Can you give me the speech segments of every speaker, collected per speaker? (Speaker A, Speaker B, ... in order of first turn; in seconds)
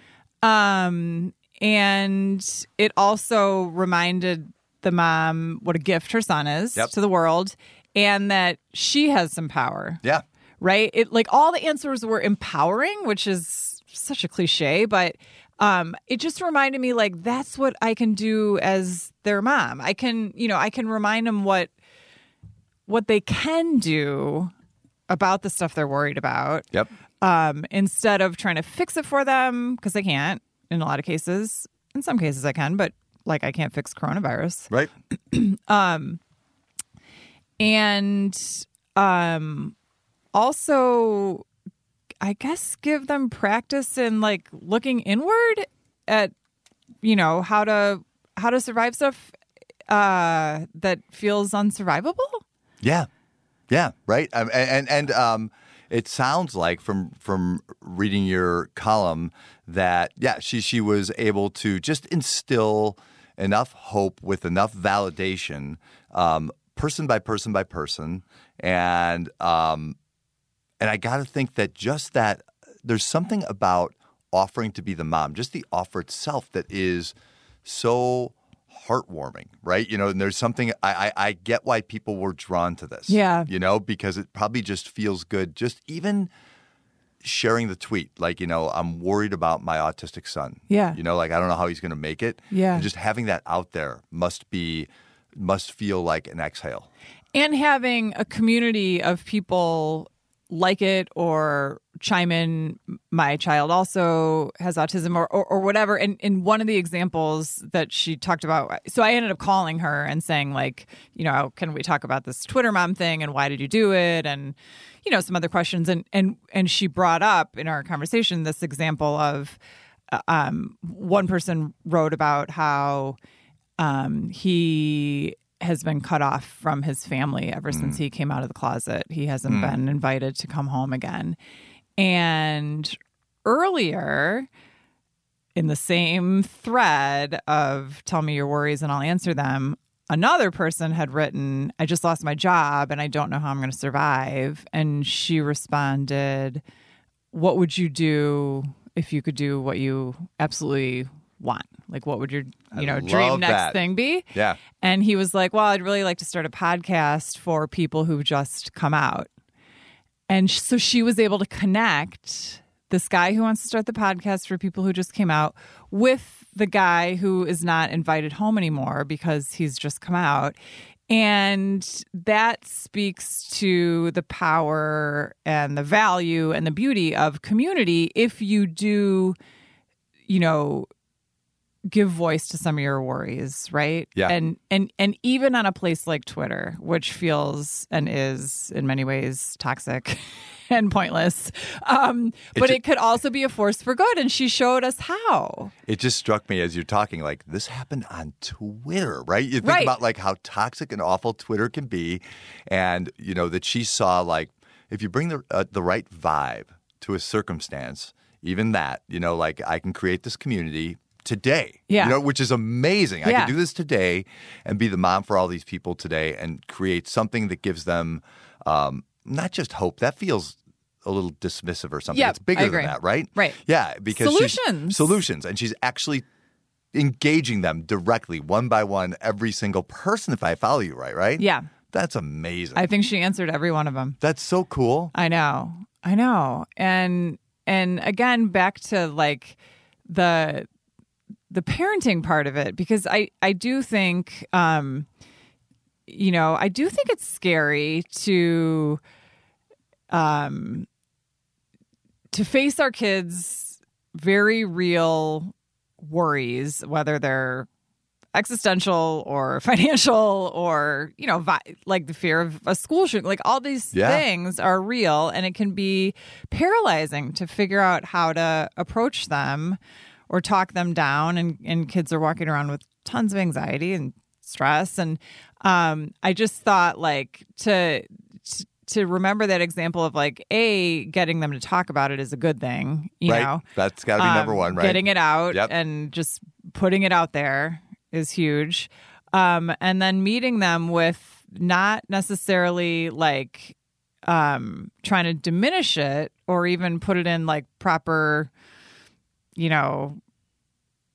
Speaker A: 0.4-10.0, 10.6-21.7, 22.9-24.5, 25.1-26.7, 27.2-36.2, 37.6-39.8, 40.3-41.5, 42.2-46.3, 47.0-49.4, 49.9-52.4, 83.1-83.5, 90.7-91.0, 92.5-92.9, 97.3-119.6, 120.1-123.2, 123.8-131.4, 132.0-134.5, 135.6-146.6, 147.3-159.3, 160.3-170.6, 171.1-179.4, 180.3-180.9, 181.9-195.7, 199.6-200.0, 211.9-212.2, 213.2-213.5, 222.1-223.6, 224.1-225.2, 231.4-231.7, 232.8-234.2, 235.1-240.7, 241.5-245.1, 246.1-249.0, 250.1-250.9, 252.3-257.7, 258.3-283.6, 284.2-293.8, 294.3-298.5, 299.6-300.2
Speaker B: 52.8-53.1, 53.7-70.0, 70.8-86.3, 87.2-96.9, 127.7-128.0, 129.5-129.8, 152.7-153.8, 154.3-154.6, 192.6-192.8, 195.9-226.2, 226.9-232.8, 234.2-235.1, 263.9-264.2, 283.3-285.7